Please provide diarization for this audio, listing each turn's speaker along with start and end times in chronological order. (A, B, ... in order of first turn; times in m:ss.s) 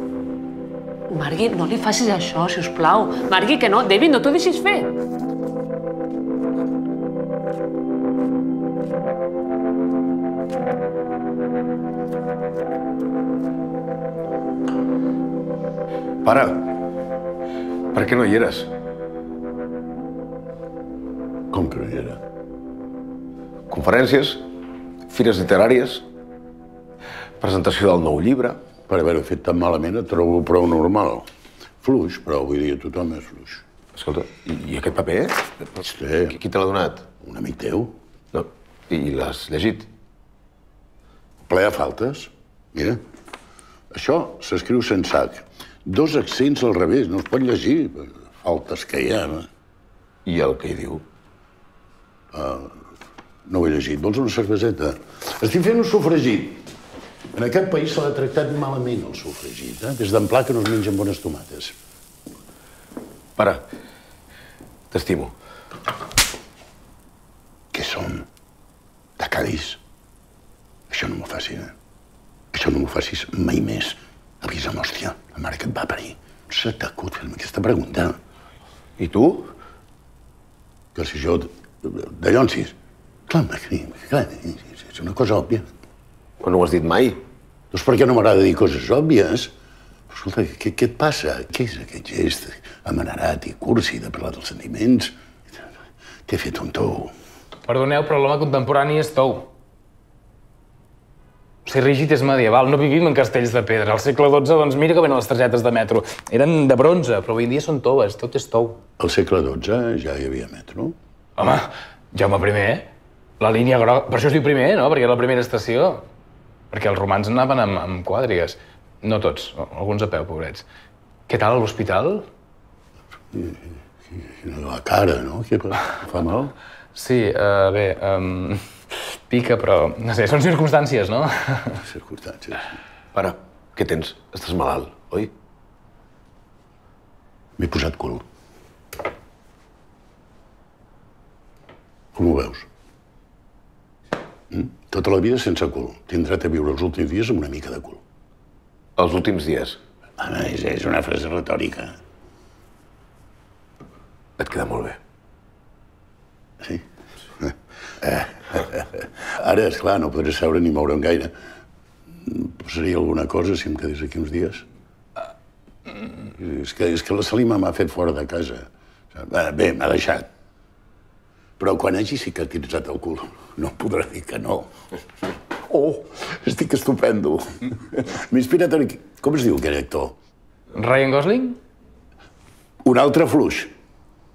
0:01.1-0:04.9 A
0:16.2-0:16.7 B
0:17.9-0:18.7 B
0:21.5-0:22.2 C
0:23.7-0:24.5 B
0:25.1-0:26.0 B
0:27.4-0:28.6 B
0:28.9-0:31.2 C
0:31.8-0:33.6 C
0:33.9-0:35.5 B
0:35.8-0:36.4 C
0:36.3-0:37.1 B
0:37.2-0:37.9 C
0:38.3-0:39.9 B
0:41.5-0:43.0 C
0:43.9-0:49.5 C
0:50.2-0:51.0 B
0:52.3-0:52.7 C
0:53.5-0:56.6 C
0:57.3-1:01.7 C
1:03.4-1:03.6 B
1:04.9-1:05.3 B
1:07.7-1:08.2 C
1:09.2-1:09.8 C
1:10.9-1:11.7 C
1:12.5-1:18.2 C
1:19.0-1:19.5 B
1:20.9-1:22.7 C
1:23.3-1:25.7 C
1:26.4-1:27.2 B
1:27.7-1:29.5 C
1:30.1-1:35.1 C
1:36.3-1:37.1 C
1:37.7-1:39.5 D
1:41.6-1:48.8 D
1:49.0-1:50.9 C
1:51.4-1:52.8 D
1:53.4-1:56.0 D
1:56.7-2:00.6 D
2:01.3-2:02.2 D
2:03.3-2:03.6 C
2:04.2-2:06.5 C
2:06.9-2:11.8 D
2:11.8-2:12.6 C
2:13.1-2:15.3 B
2:17.6-2:18.2 C
2:22.1-2:22.7 C
2:24.5-2:28.0 C
2:29.0-2:29.8 B
2:30.2-2:31.9 C
2:34.4-2:35.0 B
2:38.0-2:41.3 C
2:42.2-2:44.6 C
2:46.4-2:50.3 C
2:51.6-2:54.7 C
2:55.6-3:00.2 C
3:00.7-3:01.6 D
3:02.8-3:03.7 C